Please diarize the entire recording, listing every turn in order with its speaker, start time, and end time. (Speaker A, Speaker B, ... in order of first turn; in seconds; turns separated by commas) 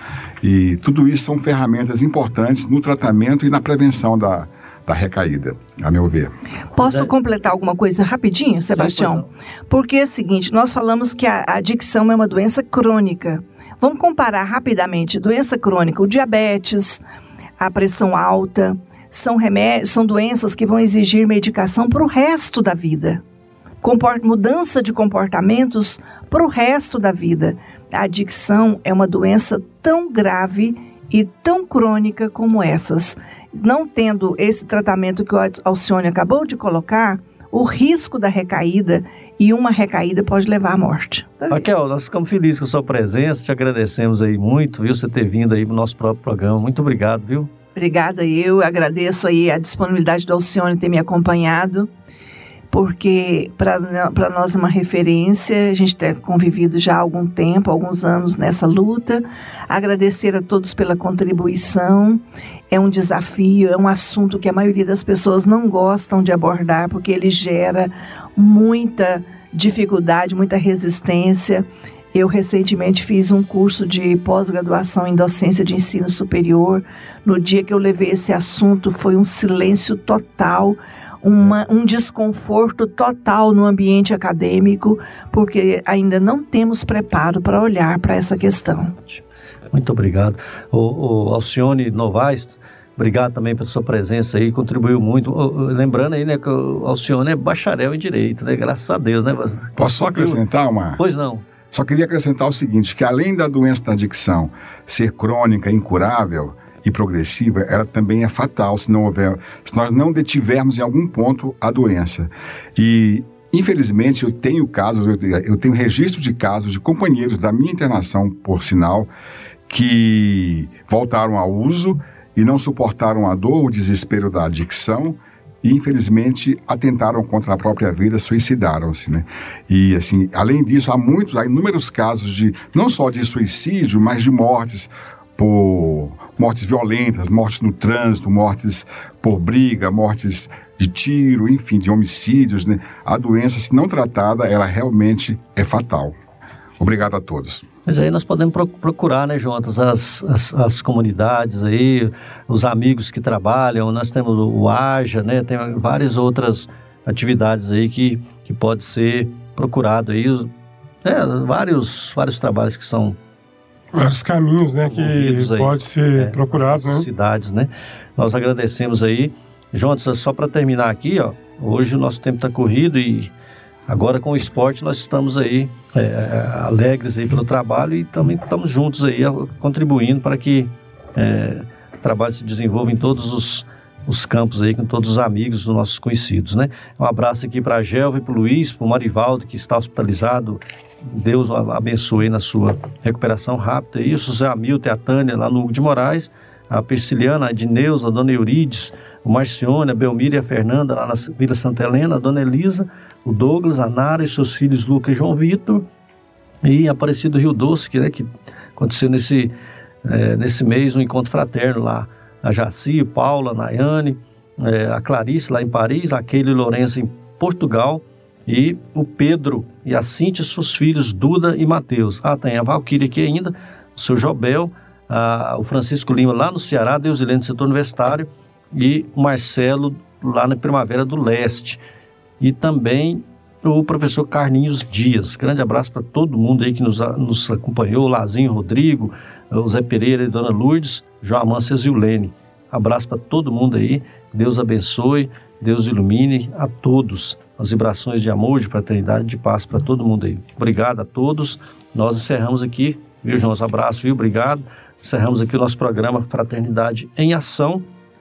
Speaker A: 0.4-6.3, Speaker B: 6.8-17.0, Speaker C: 6.8-7.1, Speaker C: 8.7-9.3, Speaker B: 17.6-23.2, Speaker B: 23.8-41.6, Speaker C: 41.5-47.5, Speaker B: 47.8-51.9, Speaker B: 52.7-88.9, Speaker C: 89.0-100.4, Speaker A: 99.8-101.0, Speaker C: 101.0-101.4, Speaker A: 101.7-119.1, Speaker A: 119.7-146.2, Speaker A: 146.8-147.7, Speaker C: 147.9-160.5, Speaker C: 161.0-163.2, Speaker D: 163.9-167.1, Speaker C: 164.9-173.3, Speaker C: 173.9-205.9, Speaker C: 206.6-209.5, Speaker C: 210.0-231.8, Speaker C: 232.4-257.9